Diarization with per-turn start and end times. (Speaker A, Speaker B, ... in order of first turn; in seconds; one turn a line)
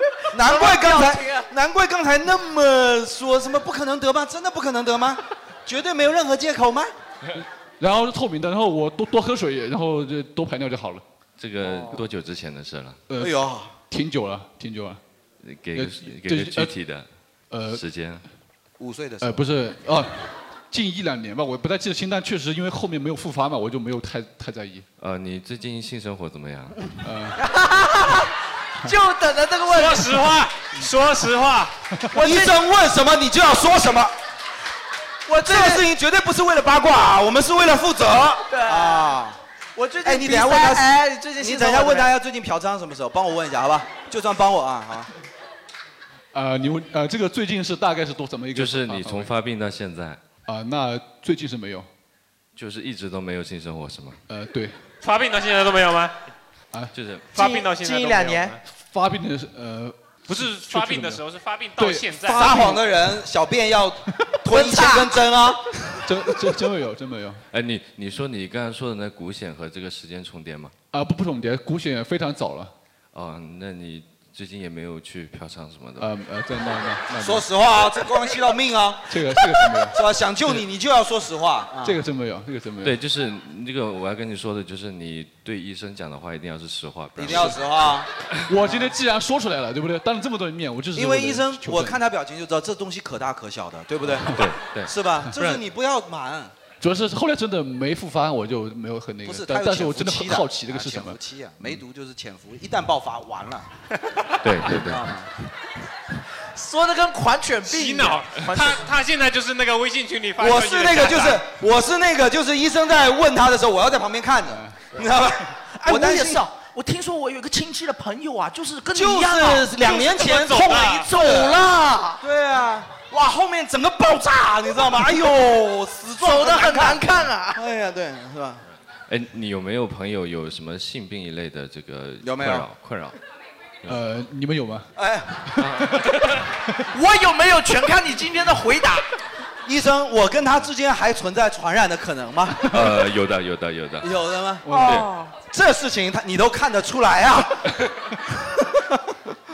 Speaker A: 0.3-6.9
Speaker B: 0.4-1.5
Speaker C: 7.4-11.0
Speaker D: 11.4-13.0
Speaker B: 11.6-12.0
Speaker C: 13.1-13.4
Speaker A: 13.2-13.7
Speaker C: 13.9-15.0
Speaker D: 15.4-17.1
Speaker C: 15.7-16.8
Speaker C: 17.5-17.8
Speaker D: 17.7-18.2
Speaker A: 18.8-19.5
Speaker C: 19.2-24.9
Speaker D: 25.0-26.8
Speaker C: 27.0-27.4
Speaker B: 27.4-28.3
Speaker B: 28.8-30.1
Speaker E: 29.7-31.7
Speaker B: 32.1-32.6
Speaker A: 32.1-34.1
Speaker B: 35.3-35.9
Speaker A: 35.4-39.4
Speaker B: 38.5-39.1
Speaker B: 39.8-42.1
Speaker A: 40.0-45.1
Speaker C: 46.3-49.4
Speaker D: 48.5-50.2
Speaker C: 50.5-51.9
Speaker D: 52.6-54.2
Speaker C: 54.3-54.8
Speaker E: 55.0-56.2
Speaker D: 56.9-57.3
Speaker B: 57.3-58.6
Speaker E: 57.3-58.6
Speaker C: 58.8-61.2
Speaker E: 60.3-62.7
Speaker C: 61.8-62.9
Speaker A: 62.3-66.1
Speaker B: 64.5-65.2
Speaker C: 66.0-67.4
Speaker D: 67.5-70.7
Speaker C: 70.9-72.7
Speaker D: 73.1-76.1
Speaker C: 76.0-77.5
Speaker A: 77.2-82.0
Speaker C: 79.1-80.0
Speaker C: 81.8-83.0
Speaker D: 82.8-87.6
Speaker A: 87.2-88.1
Speaker C: 87.2-87.5
Speaker C: 88.5-92.0
Speaker A: 88.6-88.9
Speaker A: 90.9-96.5
Speaker C: 94.2-94.5
Speaker D: 94.3-94.9
Speaker C: 96.8-101.2
Speaker A: 99.2-103.7
Speaker D: 104.4-105.0
Speaker A: 104.6-105.3
Speaker C: 104.7-105.0
Speaker B: 106.5-108.8
Speaker E: 107.7-111.4
Speaker A: 110.4-116.5
Speaker C: 114.5-114.8
Speaker B: 115.8-122.2
Speaker A: 118.9-121.6
Speaker E: 120.3-120.9
Speaker A: 122.2-128.7
Speaker B: 126.2-127.6
Speaker D: 129.1-133.2
Speaker A: 132.2-132.7
Speaker C: 133.9-136.7
Speaker A: 134.9-135.7
Speaker B: 136.9-139.0
Speaker A: 139.6-142.8
Speaker D: 142.7-144.1
Speaker C: 142.7-143.0
Speaker A: 144.0-149.1
Speaker C: 144.7-145.1
Speaker B: 144.7-145.3